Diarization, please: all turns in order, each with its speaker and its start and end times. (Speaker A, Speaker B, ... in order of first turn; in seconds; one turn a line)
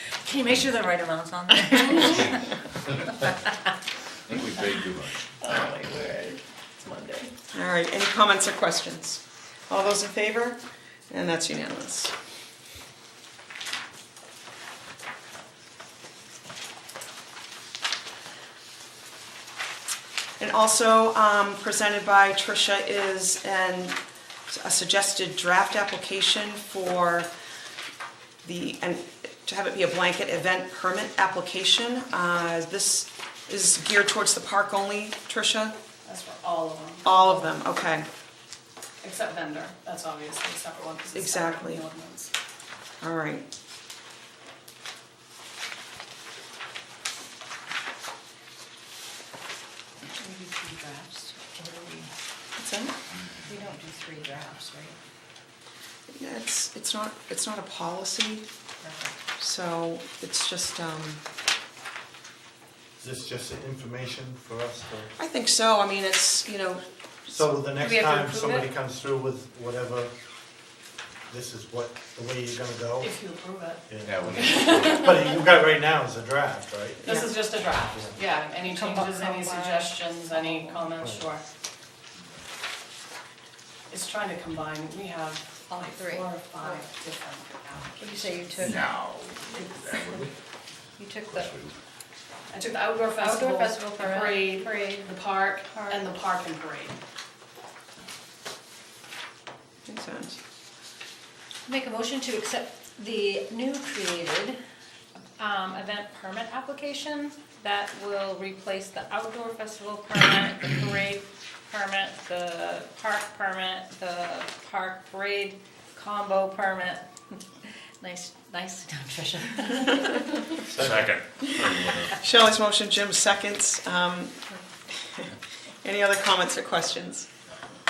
Speaker A: 0.2-3.4
Speaker B: 4.2-5.3
Speaker A: 5.4-7.3
Speaker C: 7.5-12.1
Speaker C: 20.4-27.3
Speaker C: 28.4-35.7
Speaker D: 36.0-37.5
Speaker C: 37.0-38.1
Speaker D: 39.0-42.3
Speaker C: 41.1-41.8
Speaker C: 43.0-43.5
Speaker A: 50.1-52.1
Speaker C: 52.6-53.0
Speaker A: 53.5-54.9
Speaker C: 56.1-58.5
Speaker A: 58.8-59.2
Speaker C: 59.4-61.2
Speaker E: 63.0-65.1
Speaker C: 65.2-67.6
Speaker E: 67.3-70.1
Speaker A: 67.8-68.7
Speaker E: 71.3-73.1
Speaker D: 73.0-75.3
Speaker E: 73.9-77.0
Speaker B: 74.0-75.1
Speaker D: 77.0-81.4
Speaker E: 77.7-78.1
Speaker A: 78.6-80.9
Speaker D: 83.9-88.9
Speaker A: 85.7-86.8
Speaker A: 88.0-88.8
Speaker B: 88.6-90.3
Speaker D: 89.5-90.2
Speaker A: 91.0-91.5
Speaker B: 91.2-91.8
Speaker D: 92.5-96.9
Speaker A: 93.2-96.1
Speaker C: 99.8-100.4
Speaker A: 101.7-104.6
Speaker A: 105.4-117.4
Speaker A: 118.0-120.6
Speaker E: 120.7-121.1
Speaker B: 120.8-122.1
Speaker C: 122.2-124.4
Speaker C: 125.8-127.3